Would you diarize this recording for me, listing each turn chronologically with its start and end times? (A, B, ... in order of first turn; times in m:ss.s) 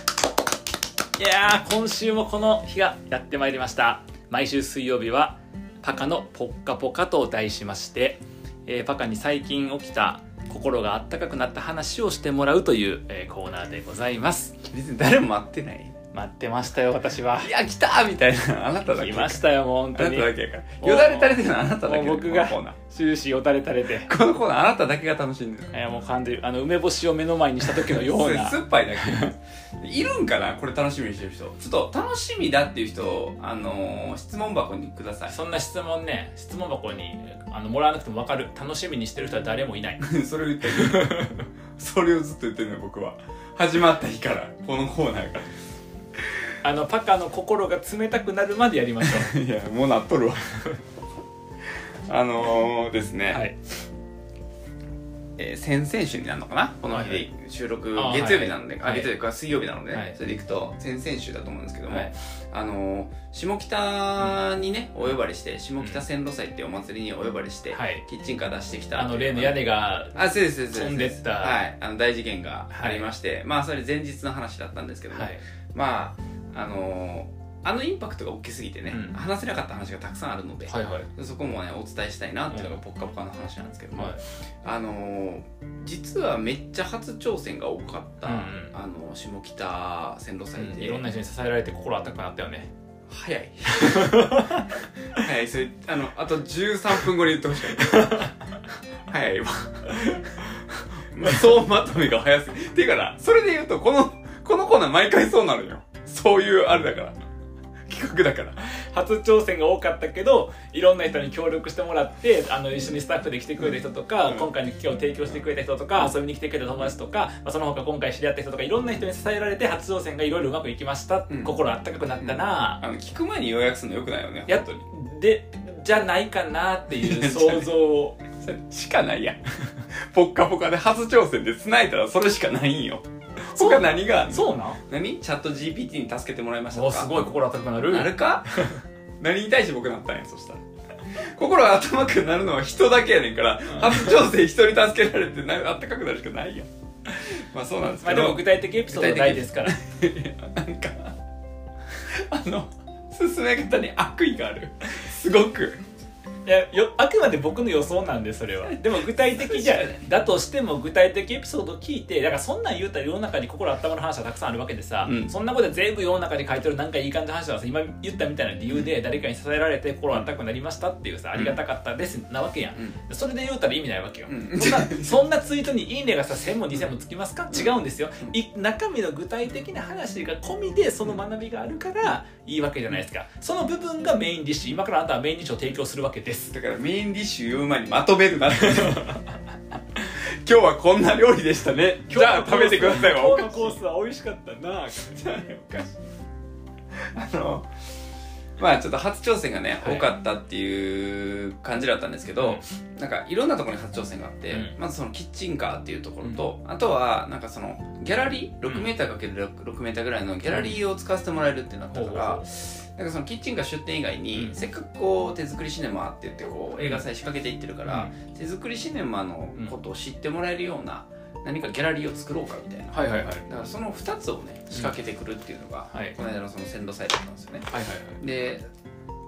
0:01.2-0:14.7 A
0:14.7-0:16.0 B
0:16.1-0:17.5 A
0:17.3-0:22.8 B
0:18.9-0:24.1 A
0:24.0-0:25.7 B
0:25.7-0:29.3 A
0:27.7-0:35.4 B
0:35.3-0:41.3 A
0:40.0-0:45.5 B
0:46.6-0:49.4 A
0:49.0-0:50.7 B
0:51.7-0:53.5 B
0:53.3-0:53.6 A
0:55.4-1:31.0 B
0:56.9-0:57.3 A
0:58.0-0:59.1 A
0:59.9-1:00.2 A
1:01.9-1:02.1 A
1:07.7-1:08.0 A
1:09.0-1:11.6 A
1:12.7-1:13.1 A
1:15.1-1:15.4 A
1:18.9-1:19.2 A
1:20.7-1:21.1 A
1:22.5-1:22.8 A
1:23.9-1:24.2 A
1:28.2-1:28.8 A
1:30.6-1:32.7 A
1:33.1-1:38.4 B
1:33.7-1:34.7 A
1:37.7-1:38.3 A
1:39.1-1:47.2 B
1:47.9-1:48.7 B
1:48.6-2:02.8 A
2:01.3-2:01.6 B
2:02.2-2:04.9 B
2:04.5-2:08.2 A
2:06.9-2:07.8 B
2:08.3-2:17.3 B
2:13.5-2:14.8 A
2:16.7-2:18.8 A
2:17.9-2:20.6 B
2:21.1-2:26.7 B
2:23.7-2:24.2 A
2:27.2-2:31.1 B
2:28.0-2:29.8 A
2:32.1-2:35.8 B
2:36.4-3:06.5 A
2:38.7-2:40.0 B
2:45.0-2:45.3 B
2:54.3-2:55.2 B
3:06.5-3:09.3 B
3:08.6-3:09.2 A
3:10.0-3:13.8 B
3:12.1-3:15.3 A
3:15.2-3:16.0 B
3:17.0-3:17.7 B
3:18.6-3:48.7 B
3:19.8-3:20.1 A
3:22.4-3:22.6 A
3:24.5-3:24.8 A
3:26.2-3:26.5 A
3:30.5-3:30.8 A
3:31.9-3:32.5 A
3:36.8-3:37.0 A
3:37.8-3:38.1 A
3:42.9-3:43.5 A
3:45.9-3:46.2 A
3:47.7-3:48.2 A